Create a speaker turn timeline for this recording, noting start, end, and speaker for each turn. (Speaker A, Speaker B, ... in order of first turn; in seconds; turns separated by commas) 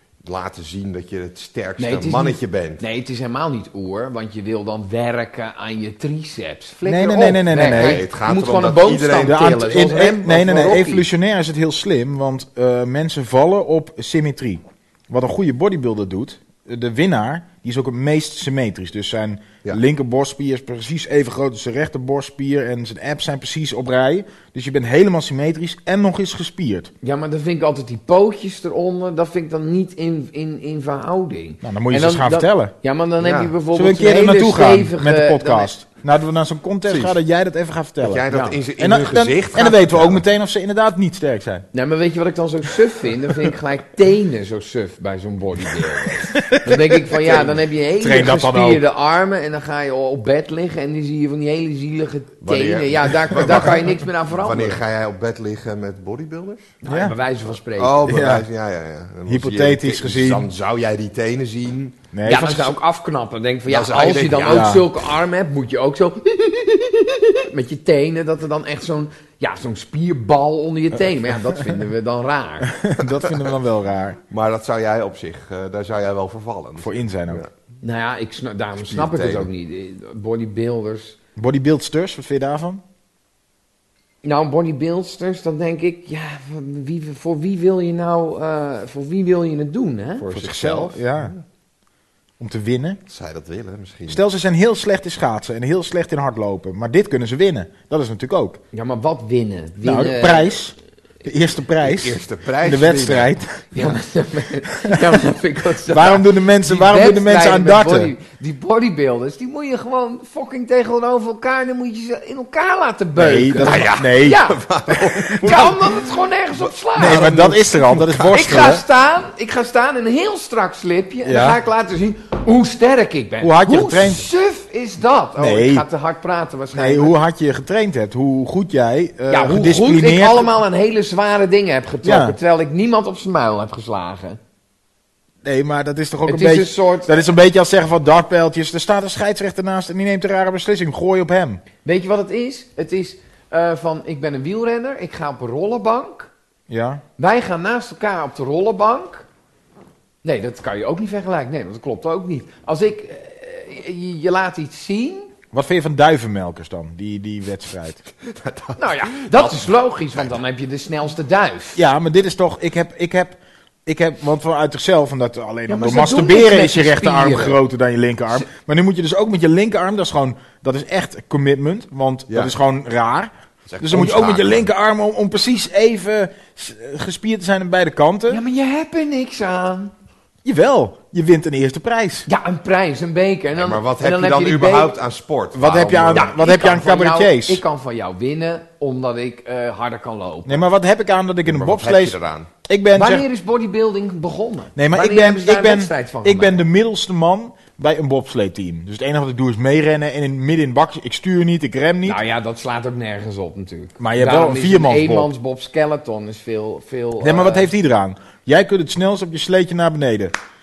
Speaker A: 0.2-2.8, Speaker B: 1.8-11.1, Speaker C: 6.8-8.0, Speaker A: 7.5-9.4, Speaker C: 9.2-26.9, Speaker B: 27.0-35.7, Speaker C: 31.6-32.7, Speaker A: 33.2-33.6, Speaker C: 33.7-38.3, Speaker A: 36.9-37.2, Speaker A: 38.0-40.2, Speaker B: 38.3-38.6, Speaker C: 38.8-41.6, Speaker B: 41.7-54.8, Speaker C: 46.0-47.0, Speaker A: 47.1-47.6, Speaker C: 48.0-48.8, Speaker A: 52.4-56.8, Speaker B: 56.8-58.2, Speaker C: 56.9-57.1, Speaker A: 57.5-62.0, Speaker C: 58.1-58.5, Speaker C: 59.3-60.5, Speaker C: 62.1-62.8, Speaker B: 62.2-72.7, Speaker A: 63.7-64.7, Speaker C: 64.4-64.9, Speaker C: 72.7-74.2, Speaker A: 74.3-77.5, Speaker C: 76.8-77.4, Speaker B: 77.8-81.2, Speaker A: 78.8-79.5, Speaker C: 81.3-82.8, Speaker B: 84.2-90.3, Speaker A: 90.2-91.4, Speaker C: 90.3-91.3, Speaker C: 92.4-93.0, Speaker A: 93.1-94.2, Speaker C: 94.1-98.6, Speaker B: 98.7-100.6, Speaker C: 99.8-103.9, Speaker A: 101.8-103.3, Speaker B: 103.7-114.6, Speaker C: 105.9-108.1, Speaker C: 113.2-115.5, Speaker A: 113.6-116.2, Speaker B: 115.4-117.5, Speaker C: 116.9-118.8, Speaker A: 117.0-118.8, Speaker B: 118.3-127.1, Speaker C: 121.2-121.6, Speaker C: 123.4-124.2, Speaker C: 125.4-125.8, Speaker C: 126.7-130.5, Speaker B: 129.3-134.4, Speaker C: 132.0-132.4, Speaker C: 135.4-141.6, Speaker B: 136.2-137.2, Speaker B: 141.8-146.3, Speaker C: 146.7-147.0, Speaker B: 147.2-149.2, Speaker B: 150.2-155.3, Speaker C: 155.5-158.0, Speaker A: 158.3-160.4, Speaker B: 158.8-161.8, Speaker C: 161.8-178.4, Speaker B: 165.7-167.6, Speaker A: 172.3-172.5, Speaker A: 173.7-174.7, Speaker B: 178.3-179.9, Speaker C: 180.4-182.3, Speaker B: 182.2-185.0, Speaker A: 183.5-186.4, Speaker C: 185.5-187.6, Speaker B: 186.1-190.6, Speaker C: 190.4-193.2, Speaker A: 191.4-192.5, Speaker B: 192.9-196.6, Speaker C: 194.8-202.2, Speaker B: 202.0-207.7, Speaker C: 204.0-205.3, Speaker C: 207.2-210.3